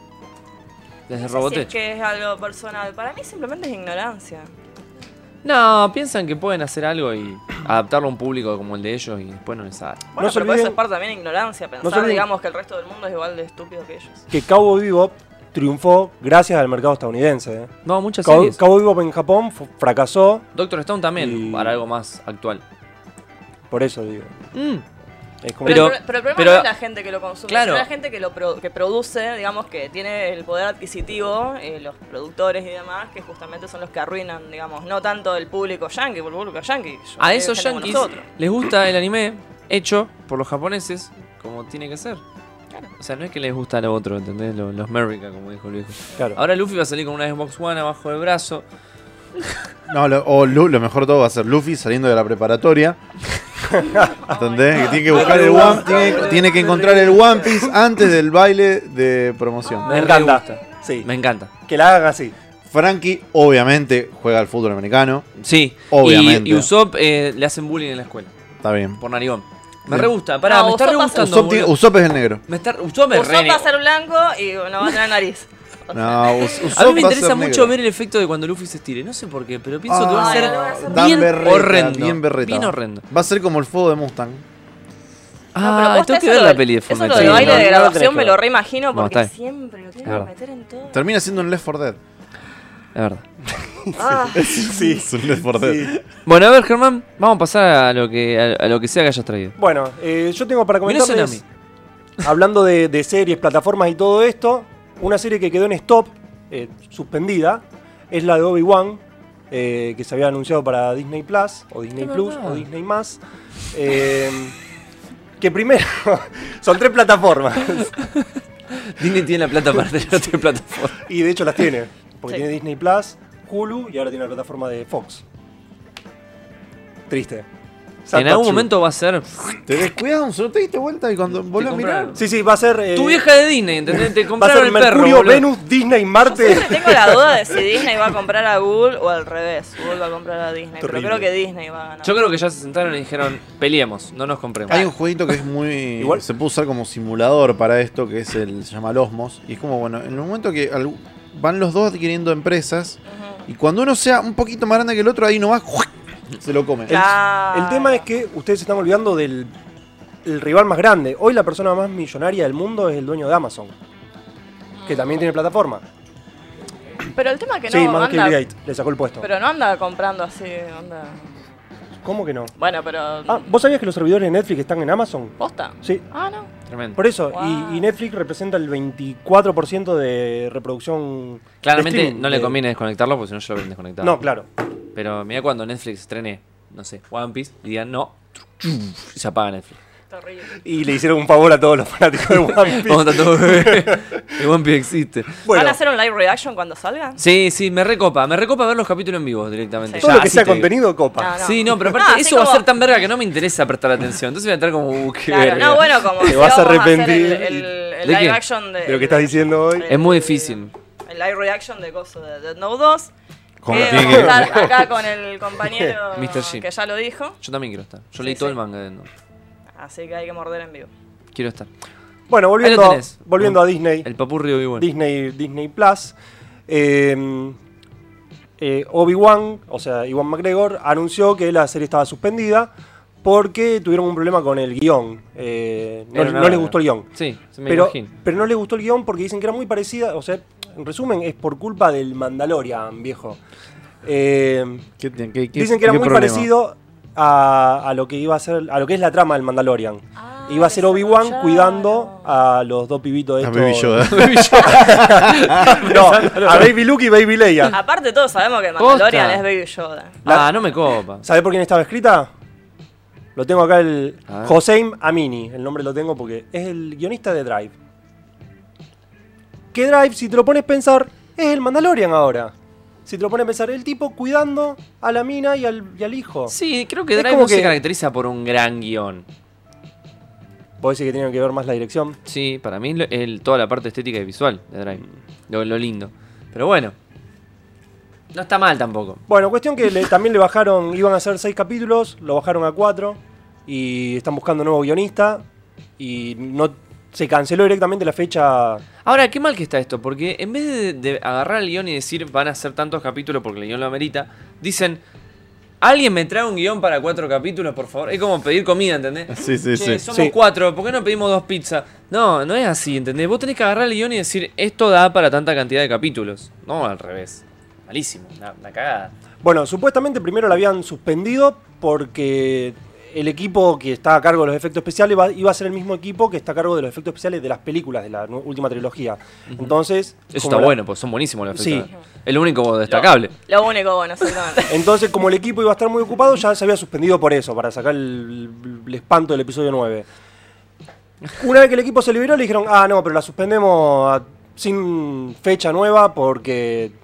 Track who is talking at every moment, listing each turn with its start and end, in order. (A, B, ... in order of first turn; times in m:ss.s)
0:01.1-0:01.7 A
0:01.2-0:04.5 B
0:05.4-0:10.0 A
0:10.2-0:14.2 B
0:10.2-0:10.8 C
0:11.8-0:12.2 C
0:14.3-0:17.7 C
0:17.8-0:18.6 A
0:18.2-0:20.5 C
0:20.5-0:22.6 A
0:21.2-0:21.8 C
0:23.7-0:24.3 C
0:24.5-0:24.8 A
0:25.4-0:25.9 C
0:25.6-0:26.7 A
0:25.6-0:38.2 B
0:27.5-0:27.9 A
0:37.2-0:42.2 A
0:43.0-0:48.6 A
0:49.9-0:53.0 D
0:53.8-0:54.2 C
0:54.2-0:56.5 B
0:54.3-1:00.0 D
0:55.1-0:57.1 A
0:55.1-0:57.8 C
0:59.6-1:00.6 B
0:59.8-1:01.1 C
0:59.9-1:01.5 A
1:01.7-1:02.4 C
1:02.7-1:05.3 D
1:05.4-1:08.3 A
1:05.9-1:06.7 D
1:08.6-1:09.0 D
1:09.0-1:11.7 A
1:10.4-1:11.4 B
1:11.2-1:12.4 D
1:12.5-1:13.7 A
1:13.1-1:16.7 B
1:15.9-1:17.7 D
1:16.7-1:23.0 A
1:19.9-1:24.4 D
1:20.1-1:21.4 B
1:25.5-1:27.7 A
1:25.6-1:31.3 B
1:27.1-1:28.4 C
1:28.9-1:29.3 A
1:30.0-1:30.3 A
1:30.9-1:32.0 D
1:33.0-1:33.2 A
1:33.9-1:35.9 C
1:33.9-1:35.0 B
1:34.3-1:36.1 D
1:36.2-1:39.6 A
1:39.6-1:41.4 C
1:40.8-1:41.4 A
1:42.2-1:53.2 C
1:52.0-1:52.7 A
1:53.7-1:54.6 C
1:55.4-1:58.0 C
1:58.0-2:01.0 A
2:01.0-2:05.2 C
2:07.1-2:07.5 C
2:08.1-2:08.7 C
2:08.1-2:09.3 A
2:09.7-2:12.2 D
2:11.5-2:12.3 A
2:12.2-2:13.3 C
2:12.9-2:15.5 A
2:14.0-2:17.2 C
2:16.2-2:22.2 B
2:20.8-2:21.3 C
2:22.0-2:24.8 A
2:24.7-2:37.0 D
2:33.1-2:33.4 B
2:36.9-2:38.0 B
2:36.9-2:39.5 C
2:40.2-2:43.7 C
2:44.8-2:45.2 B
2:44.9-2:45.8 C
2:47.1-2:48.4 B
2:47.7-2:49.3 C
2:49.2-2:51.3 B
2:52.0-2:52.5 C
2:52.6-2:53.5 B
2:53.3-2:56.0 C
2:55.4-2:56.5 B
2:56.7-2:57.0 A
2:57.0-3:02.6 C
2:57.3-2:57.9 B
3:01.6-3:04.2 A
3:04.0-3:04.5 C
3:05.0-3:09.8 A
3:10.1-3:10.6 B
3:10.6-3:14.2 C
3:12.6-3:15.4 A
3:15.4-3:15.8 C
3:15.5-3:17.2 B
3:17.2-3:20.7 A
3:20.0-3:21.3 C
3:21.2-3:22.7 B
3:21.4-3:26.3 A
3:25.3-3:33.1 B
3:26.2-3:27.7 C
3:28.0-3:28.4 A
3:28.8-3:29.9 C
3:29.9-3:30.7 A
3:33.6-3:34.6 D
3:33.7-3:37.4 B
3:33.7-3:34.8 C
3:36.1-3:36.7 A
3:37.4-3:39.1 A
3:38.2-3:38.6 B
3:39.8-3:40.9 B
3:41.3-3:41.7 A
3:42.3-3:44.1 C
3:42.6-3:44.9 A
3:44.8-3:46.2 C
3:46.7-3:47.6 C
3:48.6-3:52.7 C
3:53.2-3:57.1 C
3:56.1-3:58.1 A
3:57.7-4:03.4 C
4:04.0-4:04.9 C
4:05.0-4:06.5 D
4:05.6-4:17.8 C
4:10.2-4:12.3 B
4:13.4-4:15.7 D
4:14.0-4:16.8 A
4:17.7-4:20.2 B
4:18.8-4:19.5 A
4:20.2-4:20.6 C
4:20.2-4:21.3 A
4:21.2-4:22.3 C
4:23.4-4:27.8 C
4:24.3-4:24.6 A
4:29.7-4:32.5 C
4:33.1-4:36.6 C
4:36.5-4:39.3 A
4:37.1-4:37.8 C
4:40.8-4:42.2 C
4:42.3-4:47.0 A
4:48.3-4:49.2 A
4:49.3-4:55.4 C
4:56.0-4:58.8 C
4:59.0-5:05.0 A
5:05.8-5:19.1 A
5:09.3-5:10.0 D
5:10.1-5:10.4 C
5:19.4-5:30.8 C
5:29.5-5:29.8 A
5:30.3-5:33.4 A
5:31.5-5:31.9 C
5:32.9-5:34.9 B
5:34.7-5:40.1 C
5:41.4-5:47.0 C